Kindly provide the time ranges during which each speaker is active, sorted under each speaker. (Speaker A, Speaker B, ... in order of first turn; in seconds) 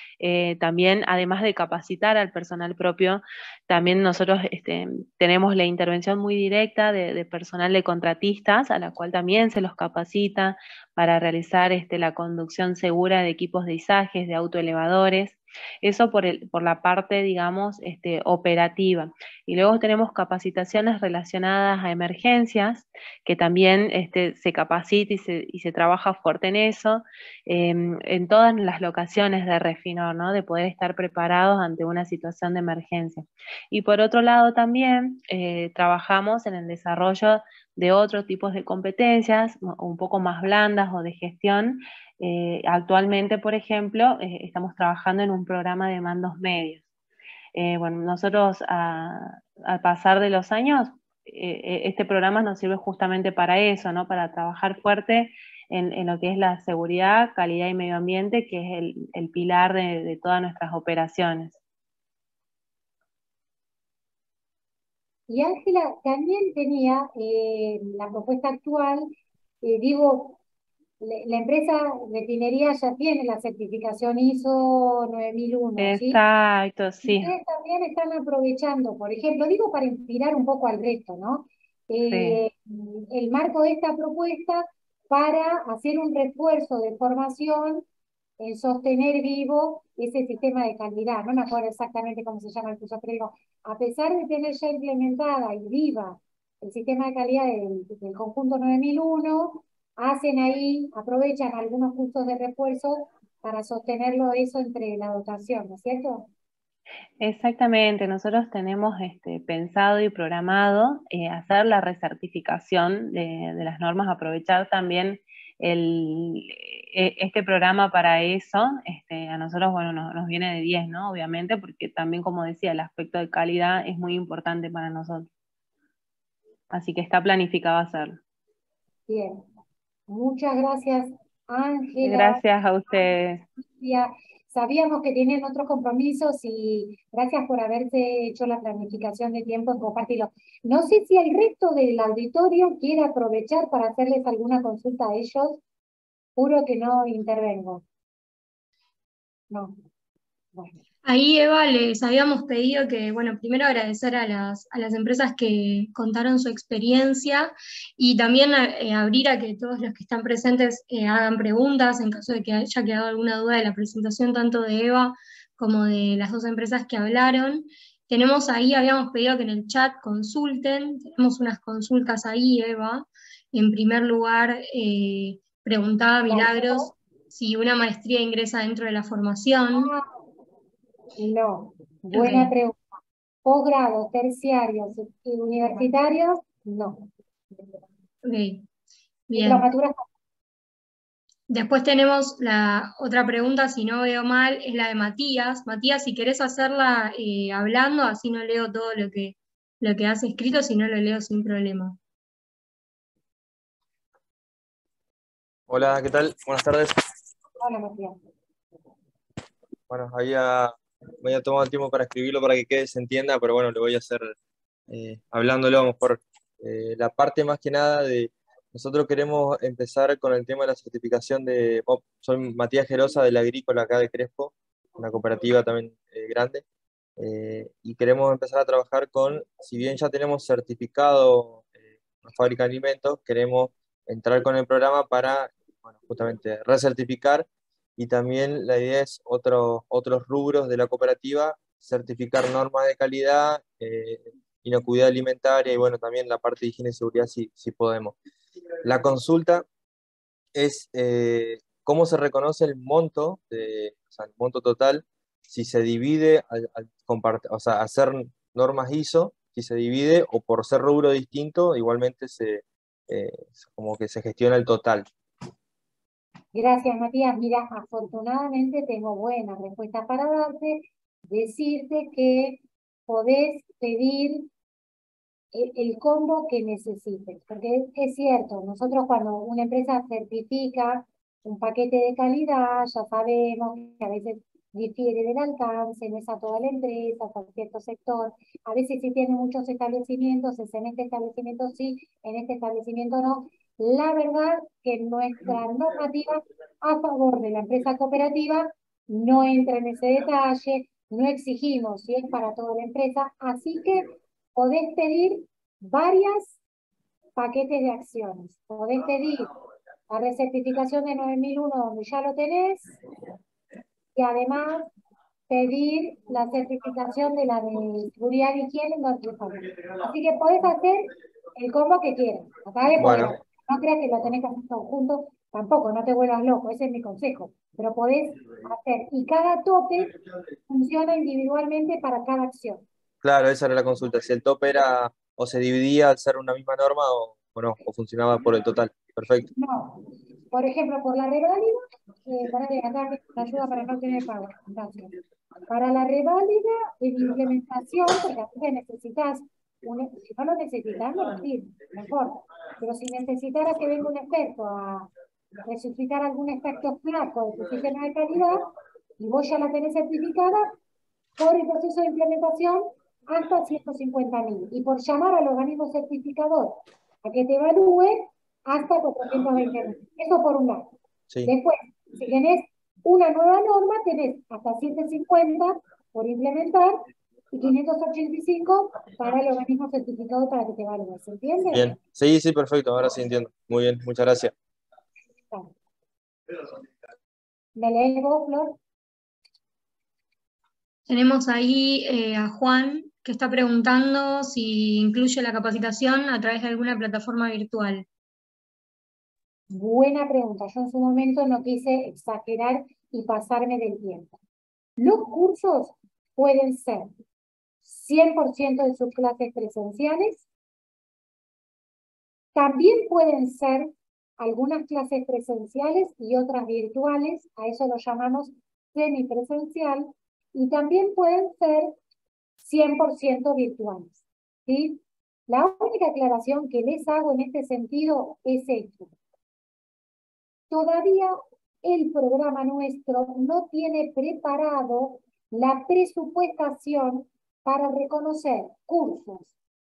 Speaker A: 0.2-46.8, 47.5-61.6, 75.8-77.3, 82.1-82.4, 107.2-125.3, 126.7-128.2, 132.0-133.4
Speaker B: 65.3-69.1, 69.6-70.4, 71.0-76.2, 77.0-87.8, 88.4-106.3, 129.1-129.4, 130.1-133.0, 133.6-145.6, 146.3-147.8, 149.5-149.8, 150.5-150.8, 176.2-176.9, 179.7-180.1, 181.2-182.8, 183.4-187.1, 189.4-190.1, 207.6-208.2, 266.5-274.5, 275.5-306.6, 307.4-309.5, 310.1-312.9, 314.1-314.9, 315.5-330.1, 330.7-332.8, 339.5-345.1, 345.7-355.1, 355.6-358.7, 359.2-360.8, 361.4-370.9, 371.4-381.9, 387.8-388.8, 399.7-404.3, 405.0-407.1, 407.8-410.4, 412.5-421.9, 422.6-429.1, 430.7-439.5
Speaker C: 151.0-179.9, 182.1-182.5, 188.2-188.7, 189.3-189.7, 191.5-201.9, 391.1-398.0
Speaker D: 205.7-206.9, 209.9-214.3, 214.9-226.6, 227.2-237.4, 238.0-248.1, 248.8-249.6, 250.5-265.1, 323.0-323.3, 333.2-339.5, 381.7-384.5